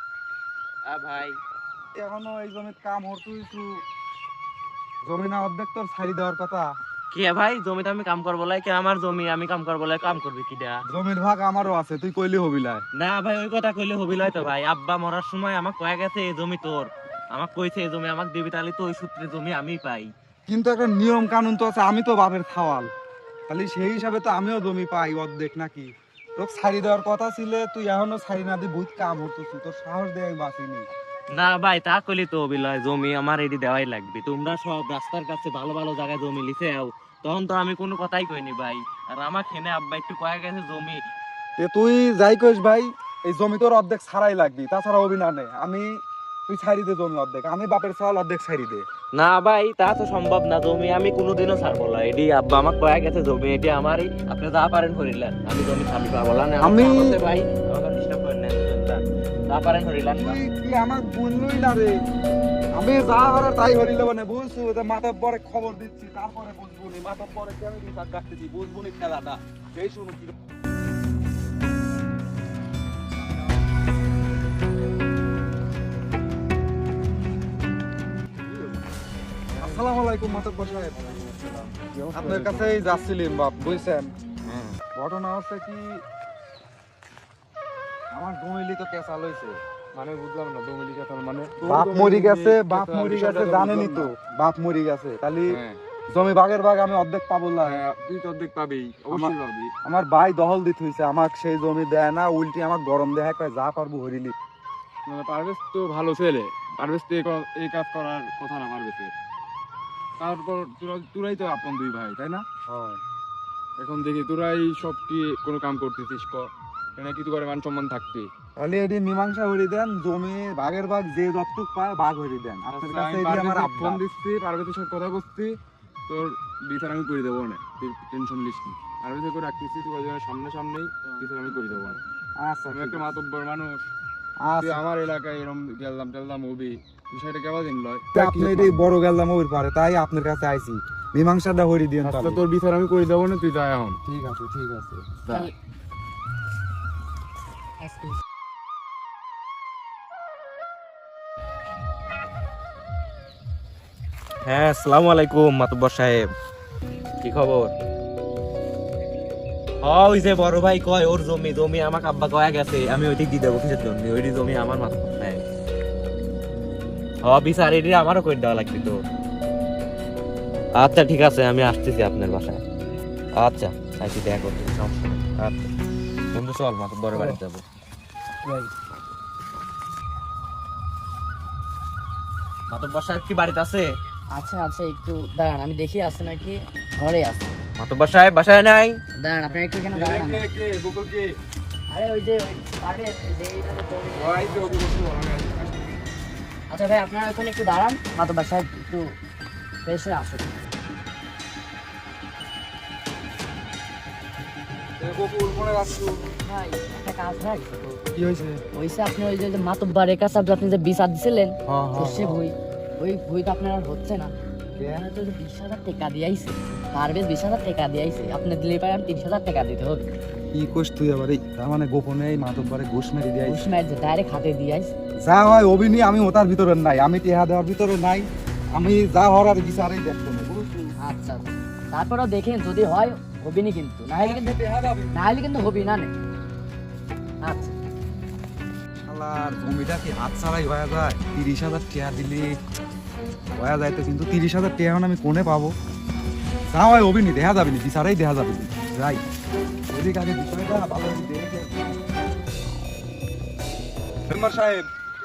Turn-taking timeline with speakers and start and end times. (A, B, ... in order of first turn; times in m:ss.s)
0:00.9-0:01.4 A
0:01.9-0:03.8 B
0:05.0-0:06.7 B
0:07.1-0:10.8 A
0:10.9-0:12.8 B
0:13.0-0:20.1 A
0:20.5-0:22.9 B
0:23.5-0:30.9 B
0:31.3-0:41.0 A
0:41.6-0:48.9 B
0:49.1-1:00.4 A
0:56.6-0:57.2 B
1:00.2-1:02.0 B
1:02.8-1:10.3 B
1:19.6-1:21.1 B
1:22.1-1:22.7 C
1:22.1-1:24.1 B
1:24.5-1:24.8 C
1:24.9-1:26.0 B
1:28.1-1:29.6 B
1:30.0-1:34.1 C
1:31.6-1:35.6 B
1:35.5-1:35.8 C
1:36.1-1:37.8 B
1:37.6-1:39.7 C
1:39.1-1:44.3 B
1:45.1-1:49.1 C
1:50.2-1:52.5 C
1:52.7-1:53.0 B
1:53.8-1:58.3 C
1:58.6-2:04.0 B
2:02.7-2:12.0 C
2:12.4-2:13.1 B
2:12.7-2:13.9 C
2:14.4-2:14.8 B
2:14.6-2:18.8 C
2:18.1-2:22.4 B
2:22.0-2:24.0 C
2:24.0-2:25.1 B
2:27.8-2:28.2 D
2:34.4-2:36.3 A
2:37.2-2:37.7 A
2:39.8-2:45.4 A
2:47.2-2:49.0 A
2:50.8-2:52.6 A
2:53.4-2:55.7 A
2:56.3-2:57.6 A
3:02.7-3:03.9 A
3:04.3-3:07.5 D
3:07.8-3:09.0 A
3:09.2-3:10.4 D
3:09.9-3:11.4 C
3:11.9-3:14.8 D
3:14.2-3:16.0 C
3:16.7-3:19.1 D
3:19.9-3:20.5 D
3:25.0-3:26.2 B
3:26.5-3:28.0 D
3:28.1-3:28.6 B
3:28.7-3:34.3 D
3:31.7-3:32.4 B
3:34.8-3:35.1 B
3:34.9-3:40.1 D
3:40.5-3:43.6 B
3:43.5-3:44.9 D
3:45.2-3:50.9 B
3:51.0-3:54.5 D
3:54.0-3:55.1 B
3:55.1-3:56.1 D
3:57.4-3:57.8 D
3:59.0-4:02.6 B
4:03.6-4:05.7 B
4:06.7-4:09.2 B
4:09.9-4:11.9 B
4:14.3-4:14.9 B